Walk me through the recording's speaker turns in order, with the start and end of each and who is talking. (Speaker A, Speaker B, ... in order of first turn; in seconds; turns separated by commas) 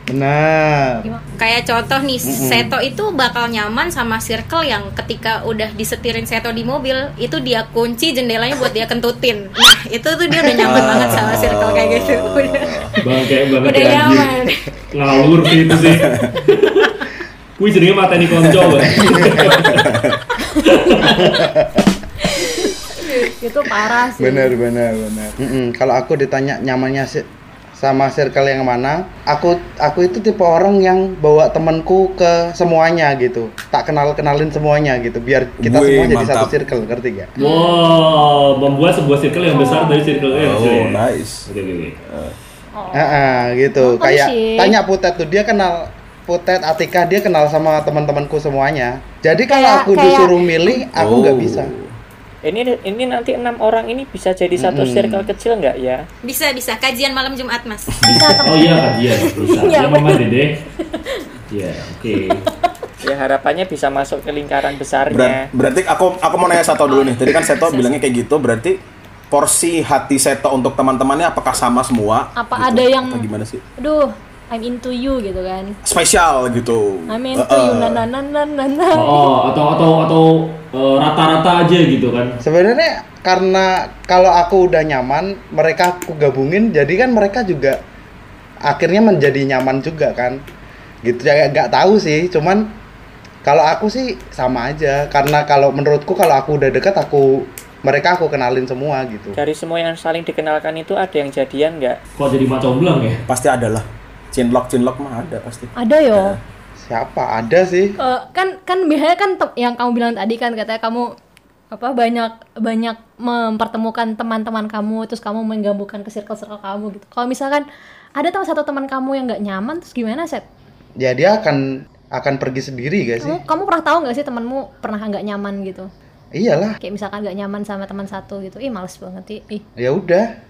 Speaker A: 0.1-1.1, Speaker B: 1.4-12.9, Speaker A: 2.2-2.7, Speaker C: 10.6-13.0, Speaker D: 13.0-14.3, Speaker B: 13.6-14.7, Speaker D: 14.9-17.0, Speaker C: 15.7-16.4, Speaker D: 17.6-19.9, Speaker C: 18.2-20.2, Speaker A: 19.0-19.6, Speaker D: 20.5-21.5, Speaker A: 21.1-21.9, Speaker E: 22.2-24.6, Speaker A: 24.2-37.3, Speaker C: 35.6-36.6, Speaker D: 37.4-42.0, Speaker E: 37.4-38.0, Speaker E: 39.5-40.3, Speaker C: 40.3-41.5, Speaker C: 42.0-42.4, Speaker E: 42.8-44.8, Speaker A: 42.9-51.7, Speaker E: 49.5-50.7, Speaker C: 51.0-52.0, Speaker F: 52.5-56.0, Speaker A: 54.5-55.3, Speaker B: 56.2-58.3, Speaker C: 58.0-58.4, Speaker E: 58.0-60.2, Speaker D: 58.4-60.5, Speaker E: 60.8-61.3, Speaker D: 61.5-62.5, Speaker E: 62.1-62.7, Speaker F: 63.0-65.5, Speaker C: 65.1-68.8, Speaker B: 66.9-68.0, Speaker C: 69.3-73.6, Speaker E: 72.4-73.3, Speaker E: 73.8-75.8, Speaker C: 75.8-78.0, Speaker E: 77.1-79.3, Speaker D: 78.9-82.4, Speaker A: 82.4-87.8, Speaker A: 88.7-90.4, Speaker A: 91.0-92.7, Speaker A: 93.4-99.4, Speaker F: 99.4-102.0, Speaker D: 102.2-103.2, Speaker C: 103.3-106.4, Speaker E: 105.8-106.4, Speaker A: 106.8-108.0, Speaker E: 108.0-111.1, Speaker E: 111.7-117.6, Speaker E: 118.2-120.5, Speaker A: 121.0-123.4, Speaker E: 123.2-125.9, Speaker A: 126.3-126.8, Speaker E: 126.8-129.7, Speaker A: 129.8-130.3